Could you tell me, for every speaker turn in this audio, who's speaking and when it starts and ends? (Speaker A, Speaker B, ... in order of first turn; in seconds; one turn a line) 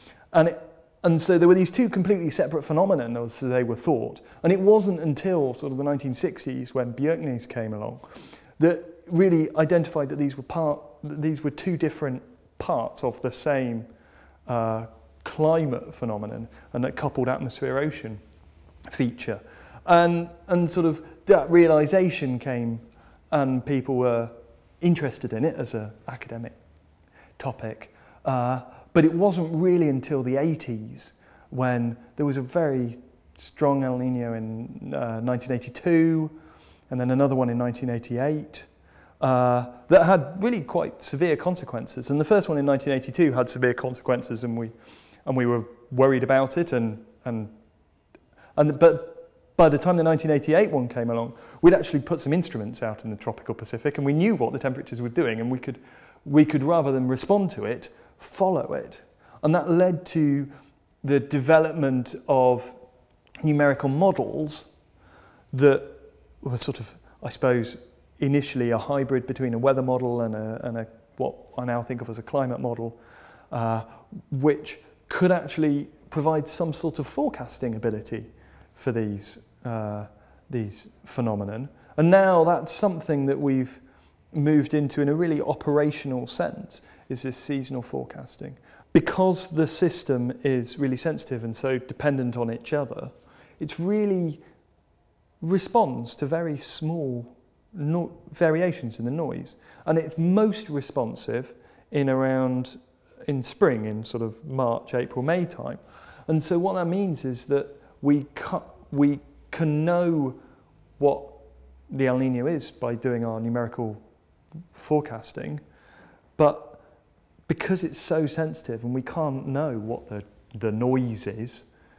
Speaker A: 0.3-8.1
Speaker A: 8.6-13.9
Speaker A: 14.5-18.2
Speaker A: 18.9-26.6
Speaker A: 27.4-36.4
Speaker A: 36.9-38.7
Speaker A: 39.2-44.7
Speaker A: 45.2-47.5
Speaker A: 48.6-60.5
Speaker A: 61.0-62.8
Speaker A: 63.4-64.7
Speaker A: 65.5-73.0
Speaker A: 73.5-83.8
Speaker A: 84.3-94.4
Speaker A: 95.4-110.4
Speaker A: 111.0-114.0
Speaker A: 114.7-115.6
Speaker A: 116.4-116.8
Speaker A: 117.5-121.7